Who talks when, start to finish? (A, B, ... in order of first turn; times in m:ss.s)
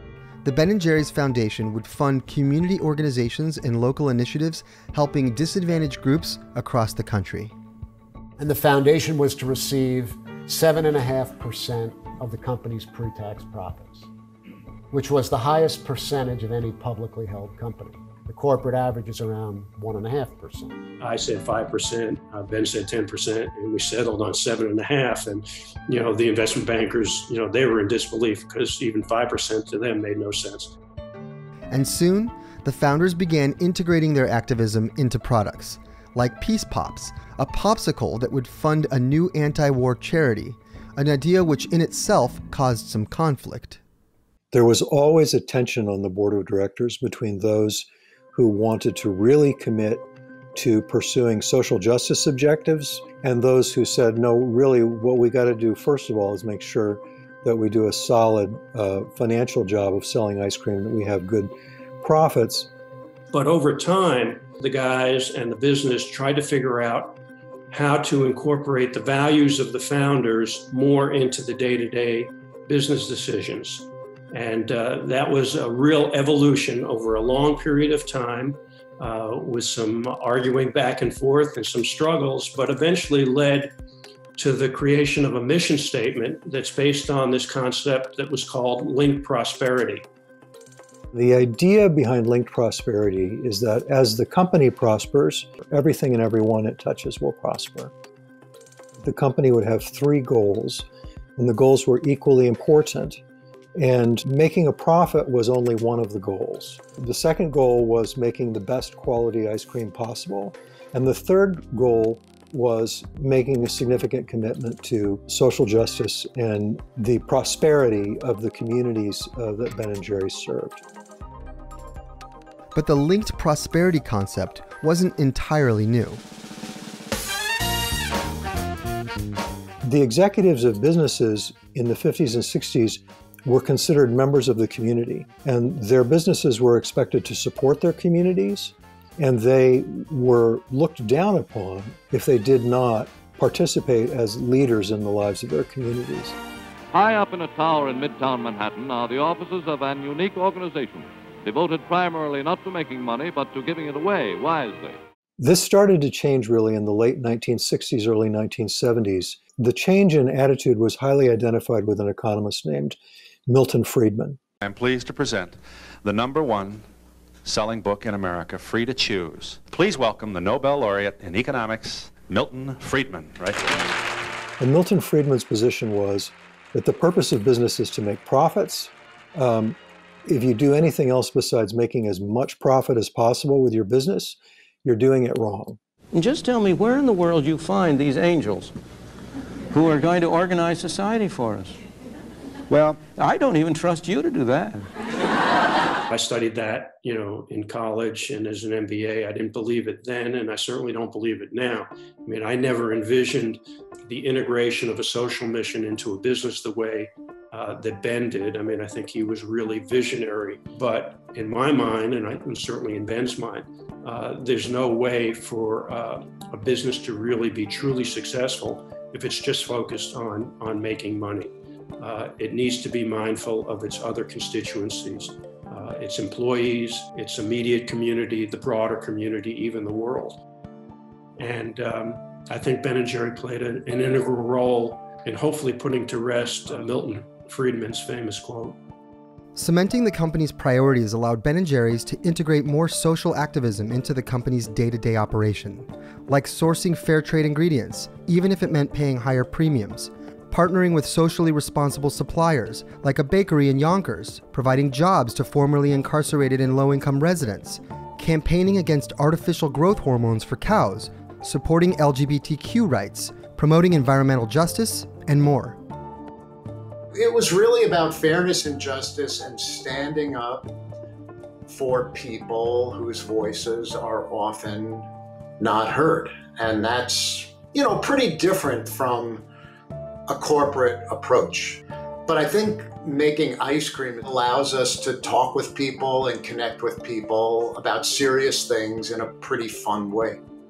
0:00.4-0:07.5 A
0:08.4-0:14.1 B
0:14.9-0:20.7 B
0:21.0-0:30.8 C
0:31.7-0:43.8 A
0:44.5-1:02.7 D
1:03.3-1:07.2 C
1:07.7-1:23.7 C
1:24.4-1:30.0 C
1:31.1-1:37.9 D
1:39.0-1:40.8 D
1:41.4-1:43.2 D
1:43.8-2:00.8 D
2:02.7-2:06.2 A
2:09.8-2:26.3 D
2:26.9-2:35.0 E
2:35.4-2:43.0 D
2:43.5-2:44.4 D
2:44.6-2:46.8 F
2:47.4-2:53.6 F
2:54.6-3:05.8 D
3:06.1-3:08.7 G
3:09.7-3:11.8 G
3:12.7-3:14.8 G
3:16.1-3:50.4 C
3:51.4-3:58.8 C
3:59.5-4:25.8 A
4:27.1-4:30.7 H
4:31.7-4:35.1 H
4:35.6-4:39.4 H
4:40.3-4:50.4 H